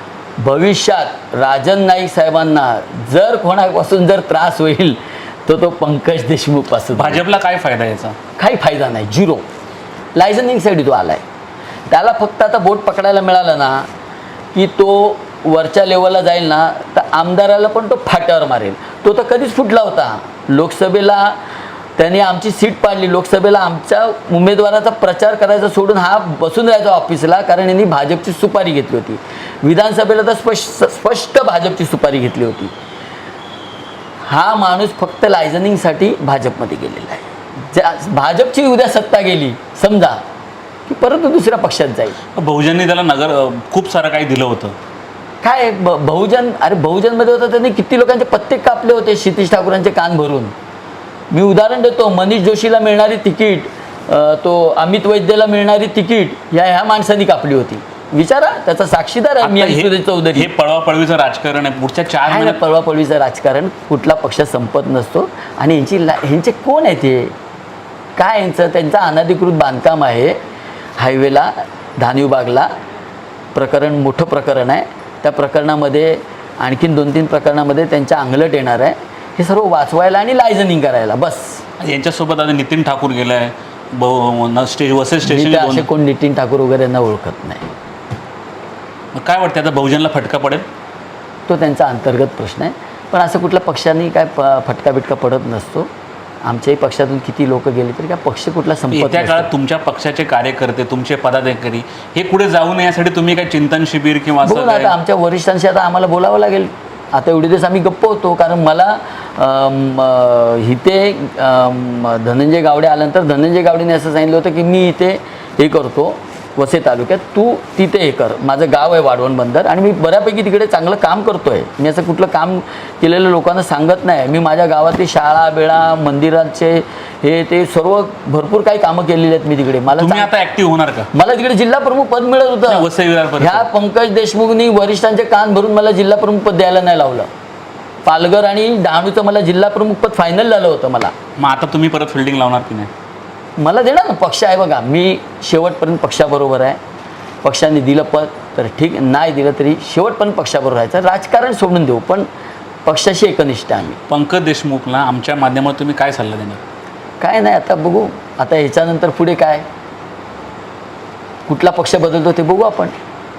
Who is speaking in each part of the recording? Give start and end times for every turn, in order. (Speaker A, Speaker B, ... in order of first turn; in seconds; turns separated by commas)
Speaker A: 0.4-7.2, Speaker B: 6.9-8.2, Speaker A: 8.4-9.4, Speaker A: 10.1-11.2, Speaker A: 11.9-13.9, Speaker A: 14.5-21.4, Speaker A: 22.0-32.7, Speaker A: 34.2-40.2, Speaker A: 40.9-42.2, Speaker B: 42.4-44.7, Speaker A: 45.4-50.5, Speaker A: 51.3-60.5, Speaker B: 59.4-62.6, Speaker A: 62.2-67.3, Speaker A: 68.2-70.4, Speaker A: 71.0-72.7, Speaker A: 73.5-81.6, Speaker B: 81.8-85.9, Speaker A: 85.2-87.6, Speaker B: 89.1-90.7, Speaker A: 91.5-95.9, Speaker A: 96.4-99.5, Speaker B: 98.9-104.9, Speaker A: 104.4-130.3, Speaker B: 129.9-131.1, Speaker A: 131.1-132.9, Speaker B: 132.7-133.7, Speaker A: 133.4-137.3, Speaker A: 138.0-141.1, Speaker B: 141.4-142.9, Speaker A: 143.6-146.8, Speaker A: 147.4-152.3, Speaker A: 152.8-154.0, Speaker B: 154.1-156.6, Speaker A: 157.2-159.6, Speaker A: 161.5-162.9